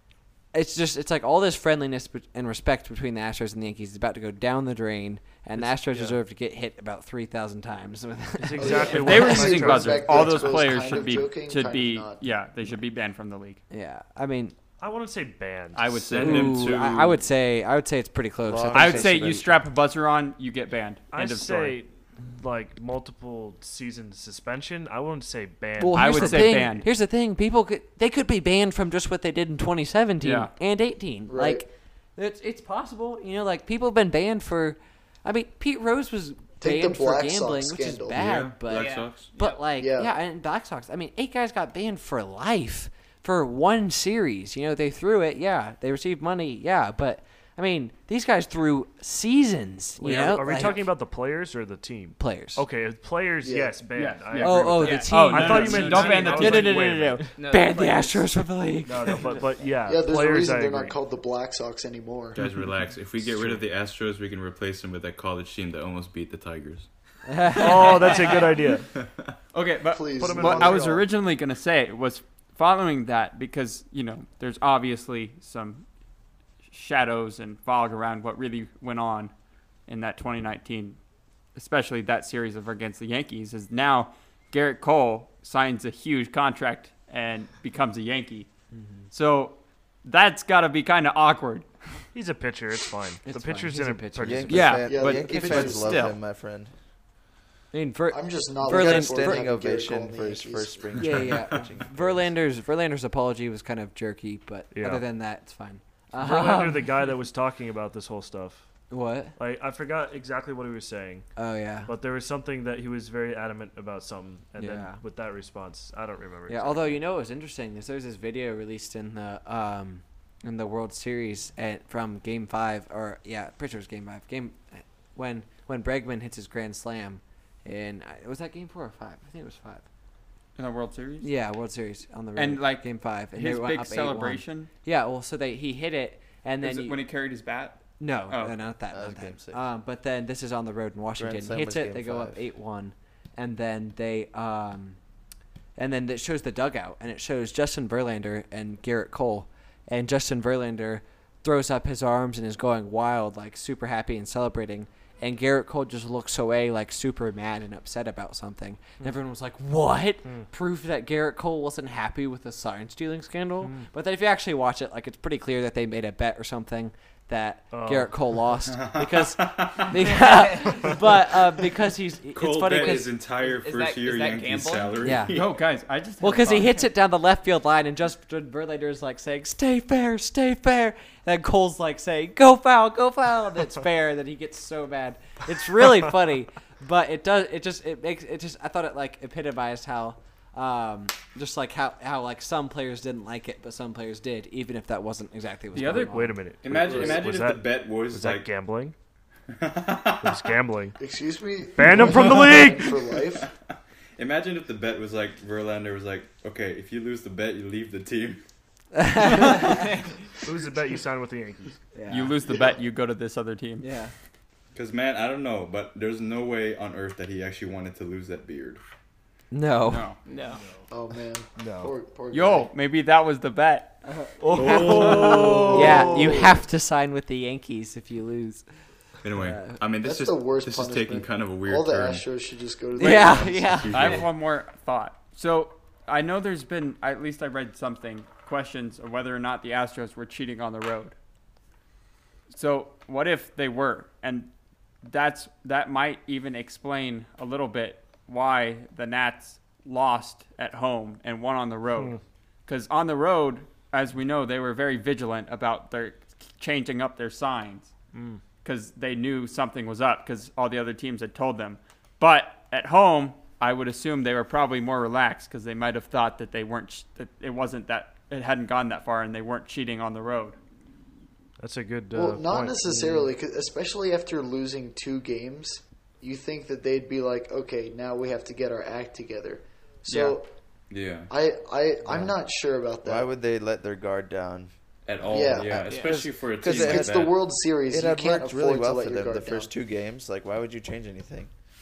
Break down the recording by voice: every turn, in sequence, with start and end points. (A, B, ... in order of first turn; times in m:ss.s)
0:00.5-0:09.4 A
0:05.6-0:06.2 B
0:08.4-0:10.6 B
0:08.6-0:12.2 C
0:08.9-0:13.6 D
0:13.7-0:14.6 A
0:14.8-0:16.2 B
0:15.7-0:16.7 D
0:16.1-0:17.2 E
0:16.2-0:19.6 A
0:18.4-0:19.4 F
0:18.7-0:21.8 D
0:21.1-0:26.7 B
0:25.8-0:50.9 A
0:25.9-0:26.9 D
0:30.2-0:30.5 D
0:31.3-0:31.7 C
0:36.6-0:38.2 C
0:38.1-0:39.3 E
0:38.7-0:39.6 G
0:39.8-0:40.1 C
0:50.0-0:57.3 B
0:50.0-0:50.8 D
0:52.2-0:52.6 A
0:53.4-0:53.8 C
0:54.0-0:57.2 D
0:54.4-0:59.5 A
0:54.8-0:56.7 G
0:57.4-0:58.3 G
0:58.8-1:01.0 B
0:59.8-1:02.4 C
1:02.4-1:06.9 E
1:07.3-1:08.2 A
1:07.6-1:08.9 B
1:08.0-1:08.3 D
1:09.5-1:15.8 D
1:09.9-1:10.9 C
1:10.2-1:11.1 B
1:16.7-1:19.3 D
1:19.9-1:21.0 D
1:21.6-1:28.5 D
1:28.7-1:29.1 A
1:29.1-1:31.7 D
1:32.1-1:34.7 B
1:33.2-1:35.9 A
1:34.2-1:36.7 F
1:34.5-1:36.2 D
1:34.9-1:36.1 C
1:37.7-1:39.5 A
1:38.1-1:41.4 C
1:38.6-1:42.3 F
1:41.0-1:47.1 A
1:44.7-1:45.0 B
1:46.2-1:48.7 B
1:48.9-1:49.4 A
1:49.4-1:51.3 B
1:51.4-1:51.9 A
1:51.9-1:57.0 B
1:54.6-1:55.0 A
1:56.5-2:09.8 A
2:10.6-2:11.3 D
2:11.2-2:17.0 A
2:12.4-2:14.7 D
2:16.6-2:18.6 D
2:18.0-2:25.0 A
2:18.9-2:19.6 F
2:21.2-2:22.4 F
2:25.8-2:53.2 A
2:40.2-2:40.5 B
2:43.6-2:43.9 B
2:47.7-2:48.4 B
2:48.8-2:49.9 E
2:50.1-2:50.8 G
2:52.3-2:55.5 E
2:52.7-2:55.1 G
2:55.0-2:55.4 A
2:55.3-2:56.8 D
2:56.2-3:16.4 A
3:15.7-3:16.1 D
3:15.8-3:19.0 B
3:16.6-3:18.5 E
3:16.9-3:17.2 C
3:19.5-3:20.5 E
3:20.2-3:21.0 B
3:21.0-3:23.5 C
3:21.8-3:23.0 B
3:24.2-3:28.4 E
3:29.0-3:29.9 A
3:30.4-3:31.8 B
3:31.9-3:32.4 A
3:32.1-3:33.9 D
3:33.8-3:34.1 A
3:34.7-3:38.8 E
3:39.5-3:40.1 A
3:39.9-3:40.2 D
3:40.2-3:40.6 G
3:40.9-3:42.7 C
3:41.6-3:41.9 B
3:42.3-3:44.0 D
3:44.1-3:48.7 A
3:44.4-3:46.6 B
3:44.6-3:45.6 E
3:44.6-3:45.8 D
3:45.8-3:46.1 C
3:49.2-3:52.3 E
3:49.4-3:49.8 A
3:50.0-3:53.7 C
3:53.0-3:54.3 A
3:53.0-3:54.3 E
3:53.0-3:53.3 D
3:53.9-4:01.2 D
4:02.5-4:04.5 D
4:05.0-4:17.9 D
4:18.1-4:18.4 B
4:18.6-4:30.6 D
4:31.6-4:33.3 B
4:32.1-4:40.5 C
4:40.0-4:40.4 D
4:40.9-4:41.3 E
4:41.3-4:43.3 C
4:43.0-4:51.5 F
4:45.1-4:47.3 E
4:45.3-4:49.7 C
4:45.9-4:46.3 G